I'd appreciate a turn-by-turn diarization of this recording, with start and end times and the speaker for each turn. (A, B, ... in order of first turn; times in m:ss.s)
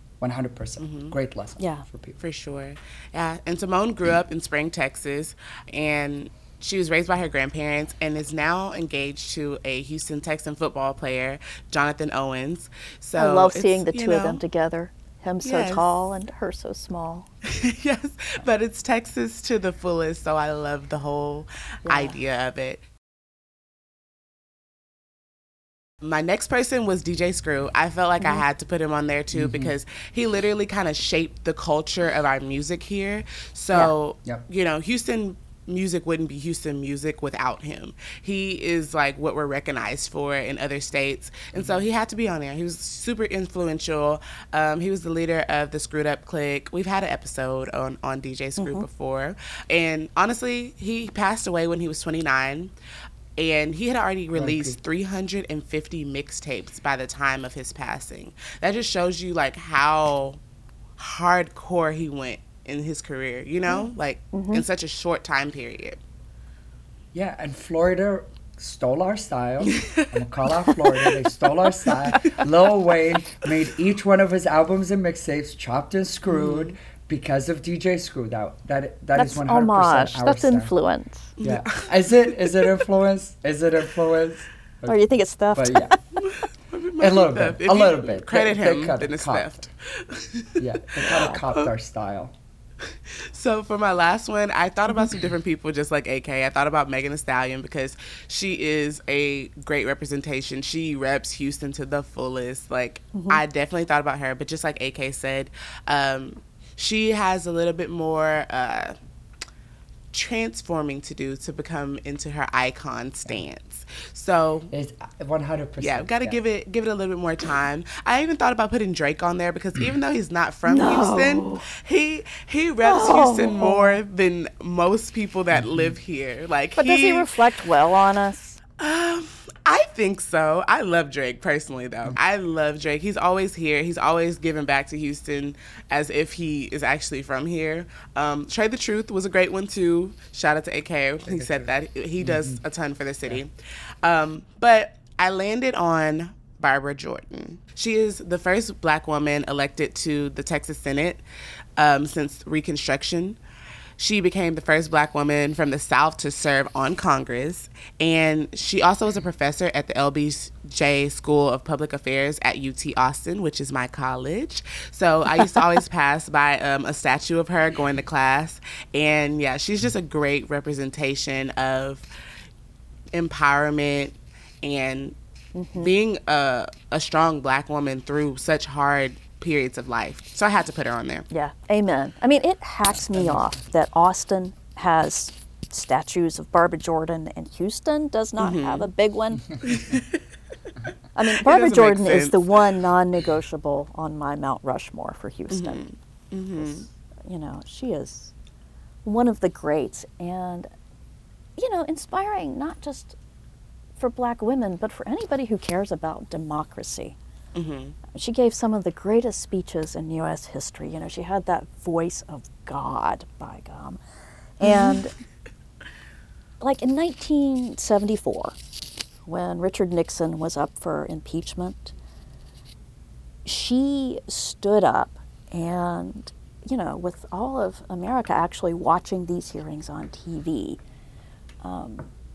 0:00.2-0:02.2 A
0:00.8-0:01.1 B
0:01.6-0:01.8 C
0:02.2-0:14.4 B
0:13.2-0:17.3 C
0:15.4-0:15.9 B
0:17.4-0:22.8 B
0:21.8-0:22.2 C
0:26.0-0:52.7 B
0:29.3-0:29.7 A
0:41.5-0:41.8 A
0:48.6-0:48.8 C
0:53.4-1:00.4 B
0:54.3-0:54.8 A
1:01.0-1:06.0 B
1:03.7-1:04.6 C
1:07.1-1:20.7 A
1:09.7-1:10.1 B
1:10.6-1:11.2 B
1:11.8-1:12.5 B
1:16.3-1:16.7 B
1:19.1-1:21.3 C
1:21.4-1:21.9 B
1:21.4-1:25.0 A
1:24.8-1:26.0 C
1:25.5-1:26.0 A
1:26.2-1:31.7 B
1:27.0-1:29.6 A
1:30.6-1:32.3 A
1:31.1-1:31.4 C
1:33.1-1:49.0 B
1:43.1-1:43.4 C
1:50.1-1:54.7 B
1:54.7-1:56.4 A
1:55.8-2:07.4 B
2:00.6-2:01.6 C
2:02.8-2:04.0 C
2:06.8-2:08.6 C
2:08.8-2:23.5 B
2:21.2-2:22.6 A
2:24.0-2:31.2 B
2:31.8-2:33.4 B
2:34.0-2:52.1 B
2:53.1-2:55.2 B
2:55.5-2:55.9 C
2:55.8-3:01.3 B
3:01.3-3:09.5 C
3:02.9-3:03.5 A
3:08.4-3:08.9 B
3:09.6-3:10.2 B
3:11.2-3:15.8 C
3:11.2-3:12.8 B
3:15.5-3:16.8 B
3:16.6-3:18.3 C
3:19.0-3:20.7 C
3:21.6-3:23.2 C
3:24.0-3:27.2 C
3:27.5-3:28.0 B
3:28.1-3:34.0 C
3:34.6-3:35.1 C
3:34.6-3:35.0 B
3:36.6-3:38.6 C
3:39.2-3:41.9 C
3:43.4-3:50.8 C
3:51.6-3:52.1 C